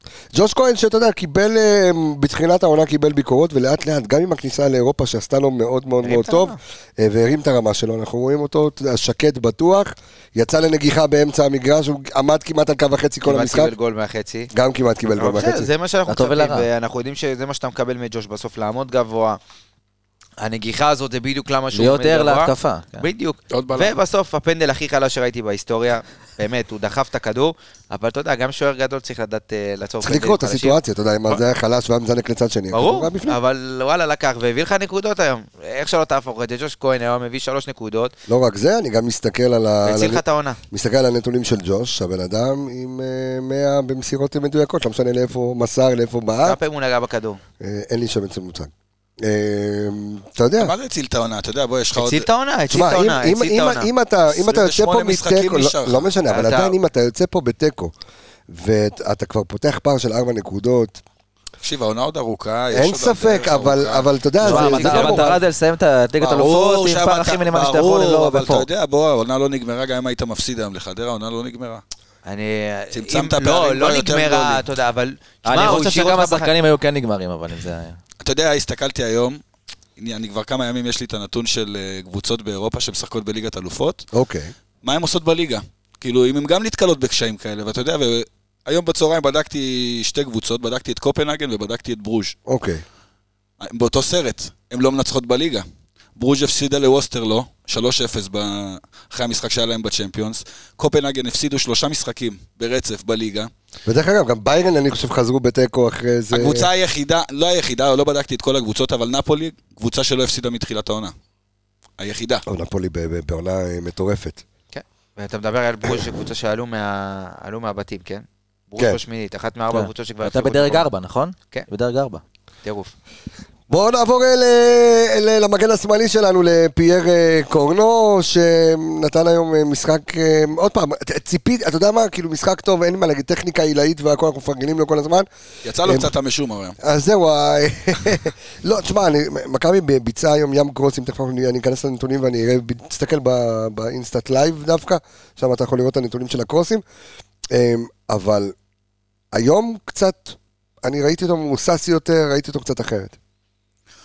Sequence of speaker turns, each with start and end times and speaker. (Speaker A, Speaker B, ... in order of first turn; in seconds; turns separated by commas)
Speaker A: 0.3-13.7, Speaker B: 6.0-6.6, Speaker B: 13.2-14.5, Speaker A: 14.5-15.7, Speaker B: 15.1-19.4, Speaker C: 16.1-16.7, Speaker B: 20.4-30.8, Speaker C: 21.7-23.1, Speaker D: 23.5-23.9, Speaker A: 30.0-33.4, Speaker B: 32.7-38.1, Speaker A: 38.3-46.6, Speaker B: 39.9-40.6, Speaker B: 46.4-47.4, Speaker A: 47.6-50.7, Speaker D: 50.6-52.3, Speaker B: 52.0-53.9, Speaker A: 52.7-57.9, Speaker D: 54.3-56.1, Speaker B: 56.3-56.8, Speaker A: 58.5-61.0, Speaker D: 61.6-64.1, Speaker A: 62.7-65.4, Speaker C: 64.4-68.7, Speaker B: 64.5-65.3, Speaker D: 64.6-65.2, Speaker D: 66.2-71.8, Speaker B: 72.2-76.5, Speaker D: 72.9-74.6, Speaker C: 75.5-78.0, Speaker D: 78.2-79.4, Speaker D: 80.0-84.1, Speaker A: 84.1-84.5, Speaker D: 84.8-92.3, Speaker A: 92.5-92.8, Speaker D: 93.6-95.7, Speaker D: 96.2-103.5, Speaker A: 103.9-106.7, Speaker D: 106.3-111.1, Speaker D: 112.0-112.4, Speaker A: 112.5-114.4, Speaker B: 114.7-120.9, Speaker C: 119.7-122.2, Speaker B: 122.6-122.9, Speaker A: 123.7-135.3, Speaker D: 135.6-136.8, Speaker A: 135.8-136.1, Speaker A: 136.8-146.8, Speaker A: 147.5-148.5, Speaker A: 149.3-153.2